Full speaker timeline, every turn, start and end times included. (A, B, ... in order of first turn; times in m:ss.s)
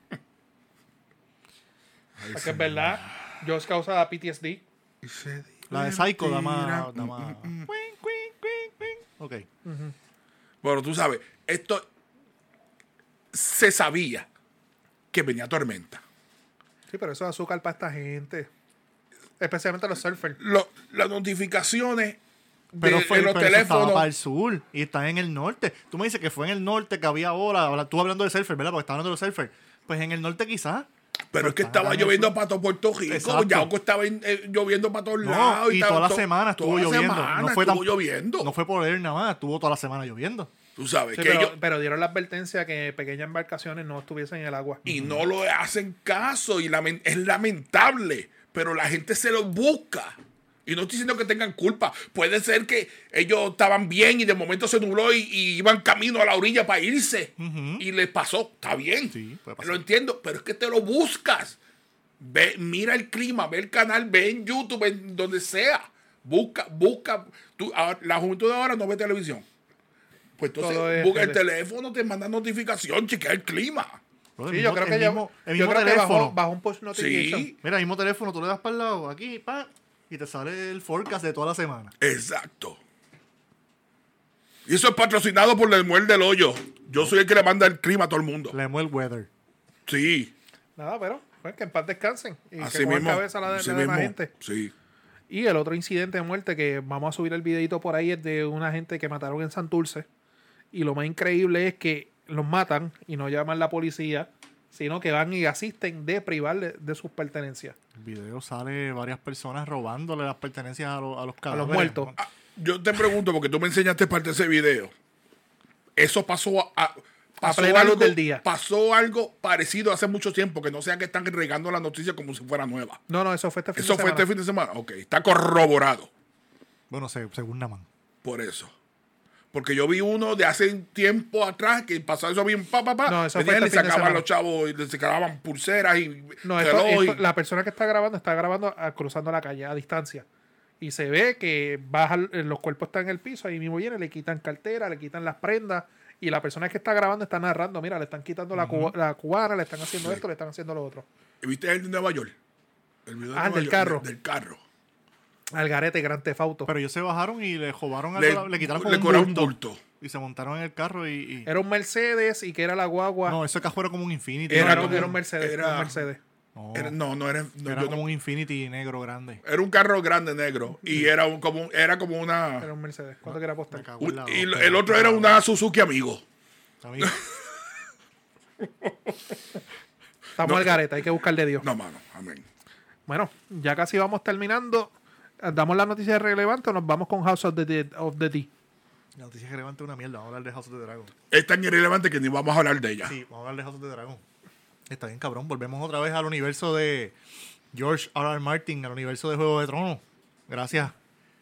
0:02.3-0:02.9 A
0:02.3-0:04.6 B
0:05.0-0:07.7 C
0:05.7-0:09.5 A
0:09.6-0:09.9 B
0:10.6-0:11.9 C
0:13.3-0:14.3 C
0:15.1-0:16.0 C
0:16.9-0:18.5 B
0:19.4-0:20.4 B
0:20.4-0:22.2 C
0:22.7-0:24.1 C
0:22.8-0:32.3 A
0:31.3-0:38.5 C
0:33.1-0:33.7 A
0:35.2-0:40.5 A
0:40.8-0:41.6 C
0:41.2-0:44.8 B
0:44.9-0:45.2 A
0:44.9-1:01.6 C
0:57.4-0:57.8 A
0:59.1-0:59.8 A
1:02.2-1:09.4 C
1:10.4-1:14.0 C
1:10.6-1:11.4 B
1:14.4-1:16.4 A
1:14.5-1:17.5 B
1:16.9-1:17.6 C
1:17.6-1:21.9 A
1:22.0-1:22.8 C
1:24.7-1:28.6 C
1:28.5-1:29.3 A
1:29.9-1:30.3 C
1:30.8-1:34.3 B
1:32.6-1:34.7 C
1:35.3-1:40.1 B
1:40.7-1:47.8 B
1:48.0-1:52.2 A
1:51.5-1:52.1 B
1:52.2-1:54.9 C
1:56.0-2:03.0 C
1:57.4-1:58.4 B
2:03.1-2:04.3 B
2:03.8-2:06.1 C
2:06.9-2:07.9 A
2:08.2-2:08.7 C
2:09.5-2:17.2 C
2:13.0-2:14.2 B
2:16.4-2:20.2 B
2:20.8-2:31.1 B
2:28.5-2:28.9 A
2:31.4-2:32.4 C
2:33.1-2:34.6 C
2:33.4-2:34.0 B
2:35.5-2:36.7 B
2:36.7-2:41.5 A
2:38.2-2:39.8 C
2:41.4-2:43.4 B
2:43.3-2:45.2 A
2:44.5-2:46.0 C
2:44.5-2:46.2 B
2:46.6-2:47.0 A
2:46.7-2:48.0 C
2:47.6-2:49.4 A
2:49.4-2:52.7 C
2:52.6-2:53.9 B
2:53.3-2:55.4 A
2:54.0-2:56.2 C
2:56.8-2:57.2 A
3:00.4-3:01.7 B
3:00.4-3:00.8 C
3:01.6-3:02.4 C
3:03.1-3:08.5 B
3:09.2-3:11.1 A
3:11.3-3:13.2 C
3:13.0-3:14.2 A
3:14.9-3:17.2 A
3:17.7-3:21.0 A